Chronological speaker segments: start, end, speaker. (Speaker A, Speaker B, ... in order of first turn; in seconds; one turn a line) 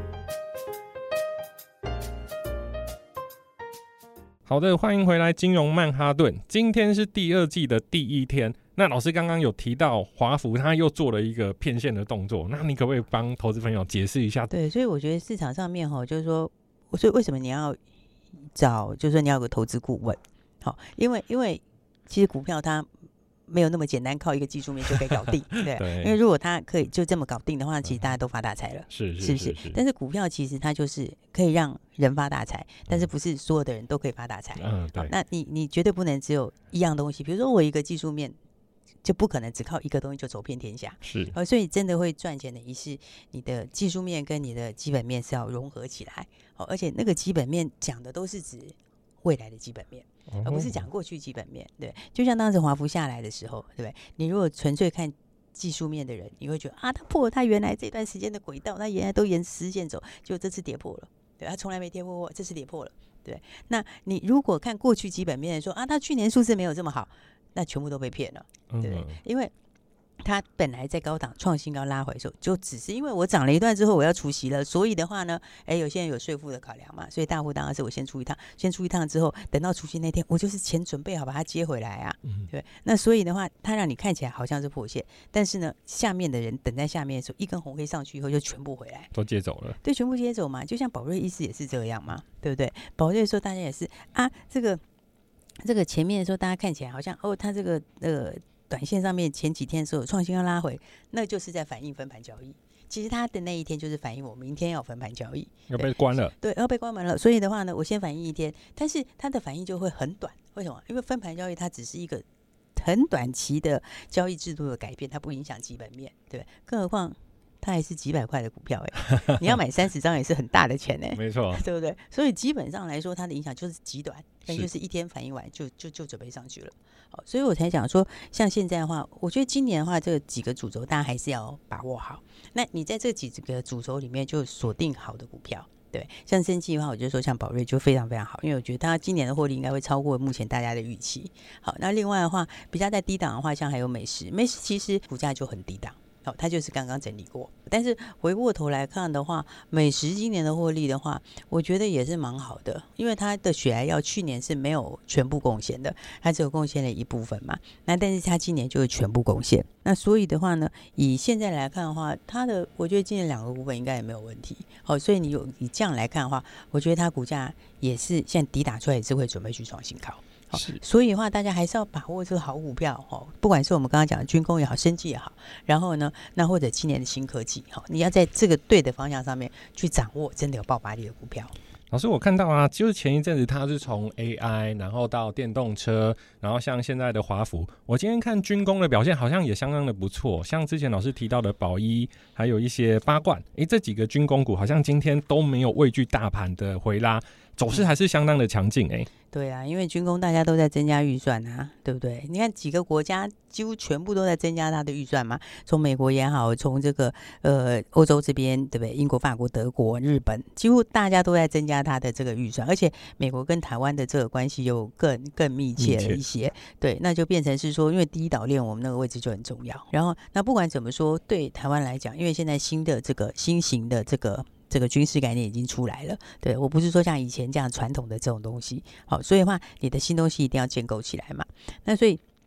Speaker A: 4.5-14.5
Speaker B: 14.5-17.8
Speaker B: 18.5-22.9
Speaker B: 23.5-38.4
Speaker A: 25.7-26.1
Speaker A: 28.9-29.8
Speaker A: 34.6-35.1
Speaker B: 39.0-69.5
Speaker A: 41.0-41.3
Speaker A: 50.3-50.8
Speaker A: 68.7-69.2
Speaker B: 70.2-89.1
Speaker A: 89.1-89.8
Speaker B: 89.8-94.8
Speaker B: 95.6-112.2
Speaker A: 105.7-106.3
Speaker B: 112.7-181.5
Speaker A: 121.2-121.6
Speaker A: 170.5-170.8
Speaker A: 181.9-199.1
Speaker B: 199.3-232.2
Speaker A: 215.8-216.2